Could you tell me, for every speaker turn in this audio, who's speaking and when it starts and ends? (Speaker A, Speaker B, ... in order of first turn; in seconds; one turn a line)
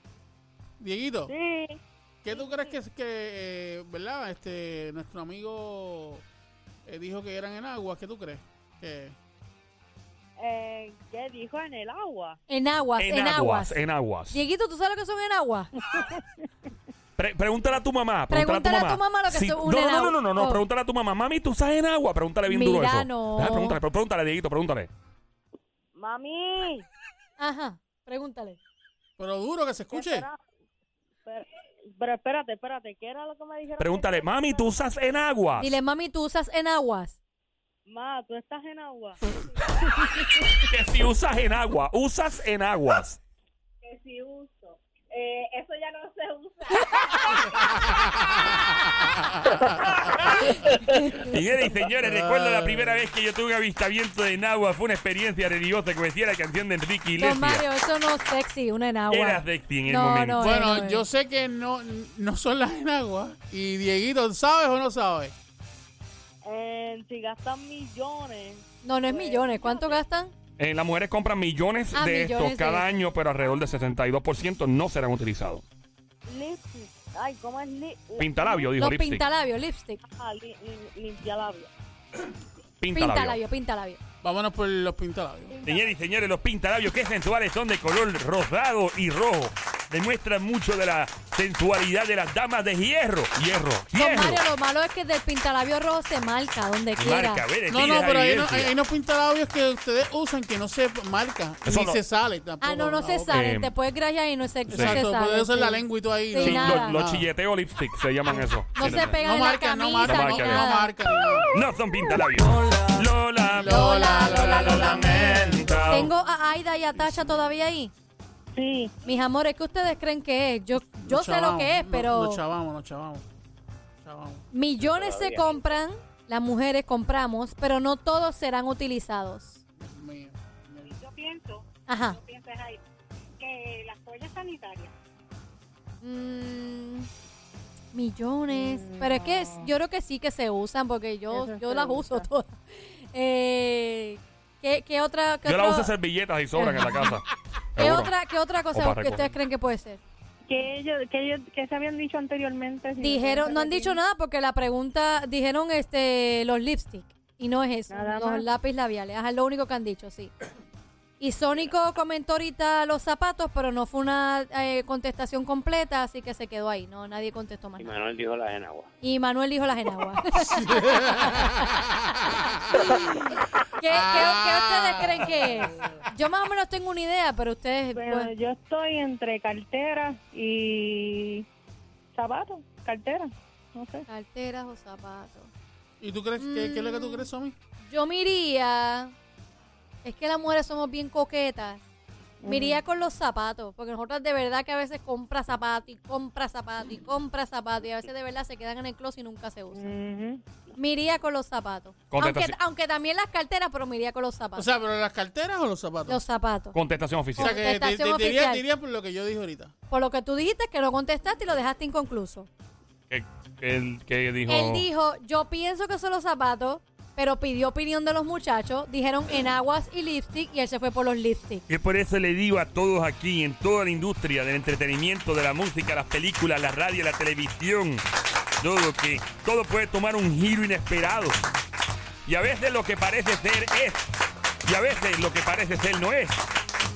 Speaker A: 0.8-1.3
Speaker B: 1.3-1.8
Speaker A: 2.2-6.2
Speaker B: 2.3-2.7
Speaker A: 6.9-9.2
Speaker B: 10.4-12.4
Speaker C: 12.5-13.8
Speaker D: 13.0-14.4
Speaker C: 14.3-15.7
Speaker D: 17.2-24.9
Speaker C: 18.3-20.6
Speaker C: 22.5-23.8
Speaker B: 25.9-26.9
Speaker C: 27.4-28.6
Speaker A: 29.2-30.3
Speaker B: 29.9-30.4
Speaker B: 31.2-34.7
Speaker D: 33.8-35.8
Speaker C: 35.6-37.2
Speaker B: 37.9-39.8
Speaker D: 40.5-43.2
Speaker B: 43.8-48.6
Speaker A: 47.6-50.2
Speaker C: 50.3-51.3
Speaker D: 50.4-57.6
Speaker A: 52.0-53.0
Speaker C: 57.2-61.0
Speaker D: 59.1-60.5
Speaker A: 60.4-65.3
Speaker B: 66.4-70.0
Speaker C: 68.8-70.3
Speaker D: 70.6-75.6
Speaker C: 71.9-72.8
Speaker B: 76.3-78.7
Speaker D: 78.2-79.2
Speaker C: 78.8-80.0
Speaker B: 80.0-81.7
Speaker D: 82.8-83.4
Speaker C: 82.9-84.0
Speaker A: 84.2-85.6
Speaker B: 85.5-86.0
Speaker D: 85.6-94.4
Speaker C: 93.9-97.4
Speaker D: 97.0-98.7
Speaker A: 97.7-103.4
Speaker D: 101.7-102.0
Speaker C: 102.6-107.0
Speaker D: 103.3-103.7
Speaker A: 104.7-107.3
Speaker D: 104.7-105.0
Speaker D: 106.4-109.2
Speaker C: 108.8-110.9
Speaker A: 108.8-111.5
Speaker D: 110.0-110.7
Speaker D: 111.5-116.1
Speaker A: 113.5-116.0
Speaker C: 113.6-117.9
Speaker B: 118.6-118.9
Speaker C: 119.0-122.4
Speaker A: 121.0-123.2
Speaker A: 124.0-124.4
Speaker C: 124.5-129.6
Speaker E: 124.8-125.6
Speaker A: 129.8-130.9
Speaker F: 130.9-132.8
Speaker C: 131.9-132.2
Speaker F: 133.4-134.9
Speaker C: 136.0-137.1
Speaker C: 137.9-145.9
Speaker F: 138.5-139.7
Speaker F: 141.3-142.3
Speaker D: 145.4-148.1
Speaker C: 146.6-147.2
Speaker C: 147.8-150.0
Speaker D: 148.7-149.3
Speaker F: 150.5-154.0
Speaker C: 153.0-160.3
Speaker F: 157.9-158.4
Speaker C: 161.2-167.9
Speaker E: 167.8-168.9
Speaker C: 169.0-173.2
Speaker A: 170.4-173.1
Speaker C: 173.7-178.3
Speaker A: 173.9-176.0
Speaker F: 177.9-181.4
Speaker F: 182.1-184.1
Speaker C: 184.1-185.5
Speaker A: 186.0-187.6
Speaker C: 186.4-187.3
Speaker C: 187.9-189.1
Speaker C: 190.0-191.8
Speaker F: 192.4-192.8
Speaker C: 192.5-199.9
Speaker F: 199.7-200.4
Speaker C: 200.8-204.7
Speaker D: 202.1-202.6
Speaker A: 204.6-206.2
Speaker C: 206.1-206.8
Speaker D: 206.7-207.6
Speaker C: 207.4-208.6
Speaker A: 207.4-209.7
Speaker C: 209.9-212.5
Speaker D: 213.1-214.9
Speaker C: 214.5-221.6
Speaker D: 221.7-228.0
Speaker D: 228.6-231.4
Speaker D: 232.3-234.1
Speaker D: 234.7-236.4